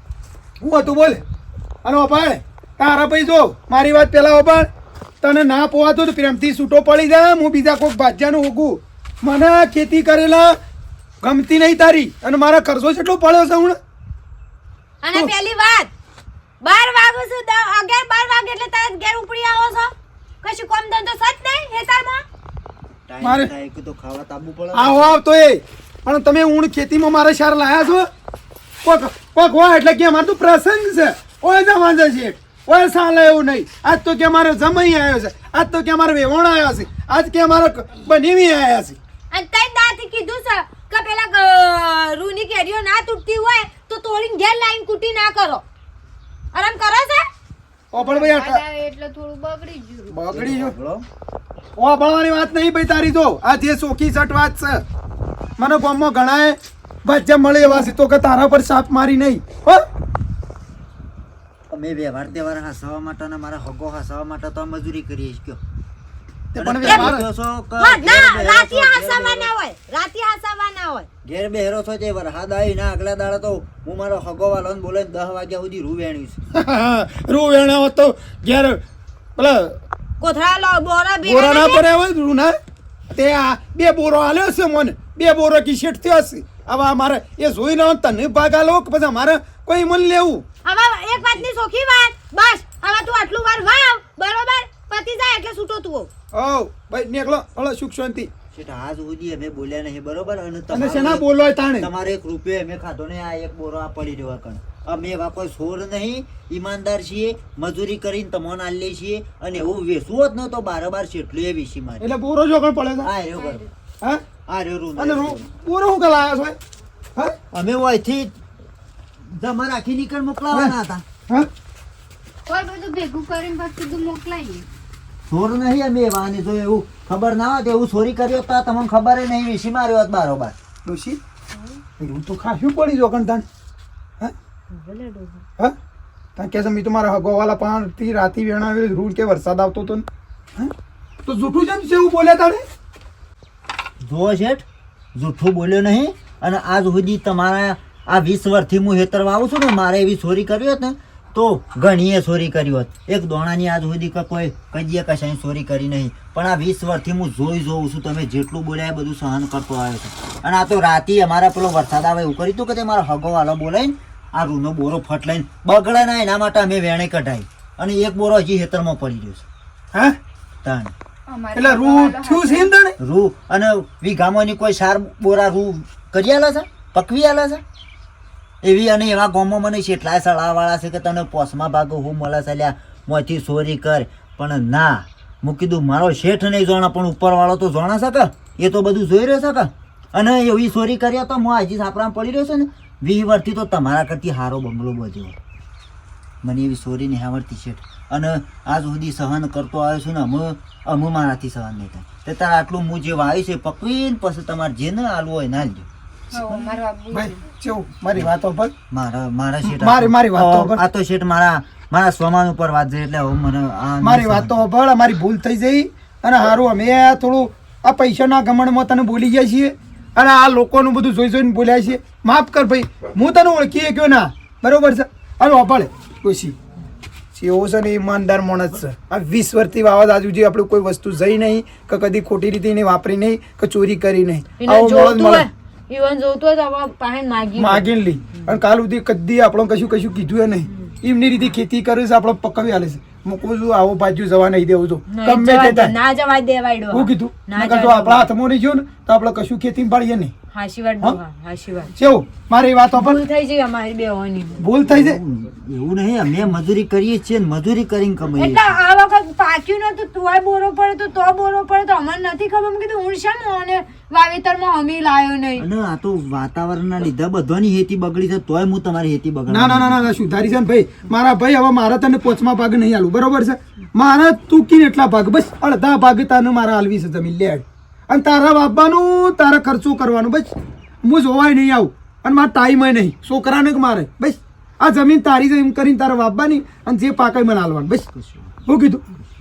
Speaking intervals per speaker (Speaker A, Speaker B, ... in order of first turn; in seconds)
Speaker A: 0.6-1.2, 1.8-4.7, 5.2-10.6, 11.2-13.8, 23.2-23.5, 24.7-28.1, 28.8-39.0, 47.9-48.6, 50.1-50.7, 51.8-54.8, 55.6-59.8, 66.5-67.3, 76.5-78.8, 79.4-79.8, 81.2-82.5, 83.1-90.4, 96.3-98.3, 100.7-101.9, 112.0-113.1, 115.0-116.6, 130.8-131.2, 132.0-133.4, 136.4-140.7, 141.2-142.6, 169.9-170.2, 171.5-172.9, 206.3-208.7, 209.6-210.8, 214.0-226.6, 227.3-235.5, 237.6-245.9, 246.9-250.3, 252.0-253.2, 254.6-255.2, 269.5-288.1, 288.7-289.0
Speaker B: 15.0-15.9, 16.6-22.2, 39.3-45.6, 46.5-47.3, 66.8-67.1, 67.8-71.1, 80.2-81.8, 90.6-96.1, 134.7-135.4, 234.6-237.9, 245.1-248.3, 250.5-251.9, 253.0-254.6, 258.4-265.6
Speaker C: 23.1-25.2, 50.3-51.0, 61.7-65.6, 66.5-69.5, 71.2-76.4, 98.5-101.2, 101.8-112.2, 113.0-113.6, 114.5-115.4, 117.5-118.3, 119.2-121.0, 125.3-130.6, 144.0-169.4, 170.6-170.9, 173.0-177.6, 178.6-195.4, 196.4-205.9, 208.9-214.7, 254.8-258.8, 265.6-270.1, 288.1-288.5
Speaker D: 47.9-50.2, 113.3-113.7, 122.5-124.7, 171.3-172.7, 206.3-207.4